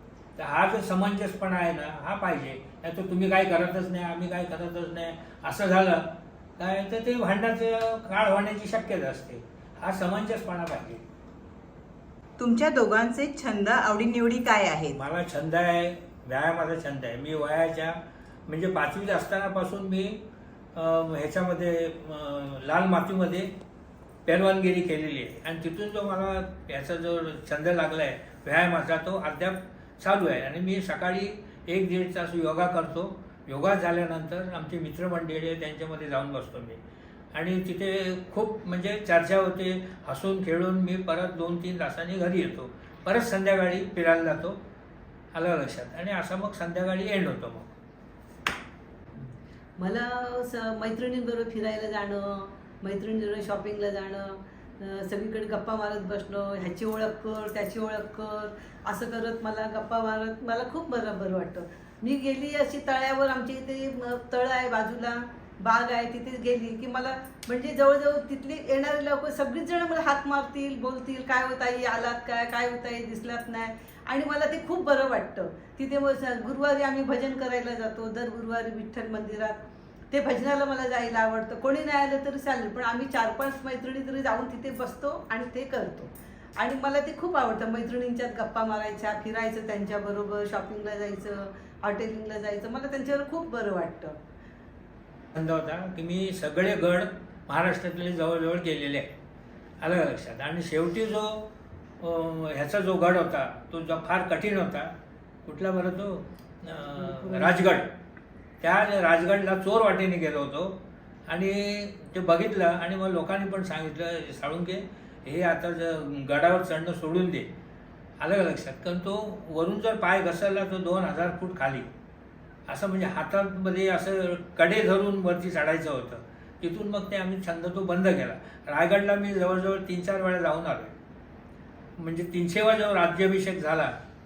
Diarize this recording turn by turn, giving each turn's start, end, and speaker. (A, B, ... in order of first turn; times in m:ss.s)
0:00.4-0:11.0 A
0:12.4-0:14.9 B
0:15.0-0:20.2 A
0:20.8-0:23.5 A
0:24.3-0:36.8 A
0:37.3-0:44.6 A
0:45.3-0:47.7 A
0:49.8-1:19.6 C
1:20.1-1:34.2 C
1:35.4-1:39.1 A
1:39.8-1:41.5 A
1:42.0-1:44.9 A
1:45.4-1:47.9 A
1:47.1-1:47.6 C
1:48.6-1:57.5 A
1:58.2-2:01.9 A
2:02.7-2:11.0 A
2:12.0-2:13.9 A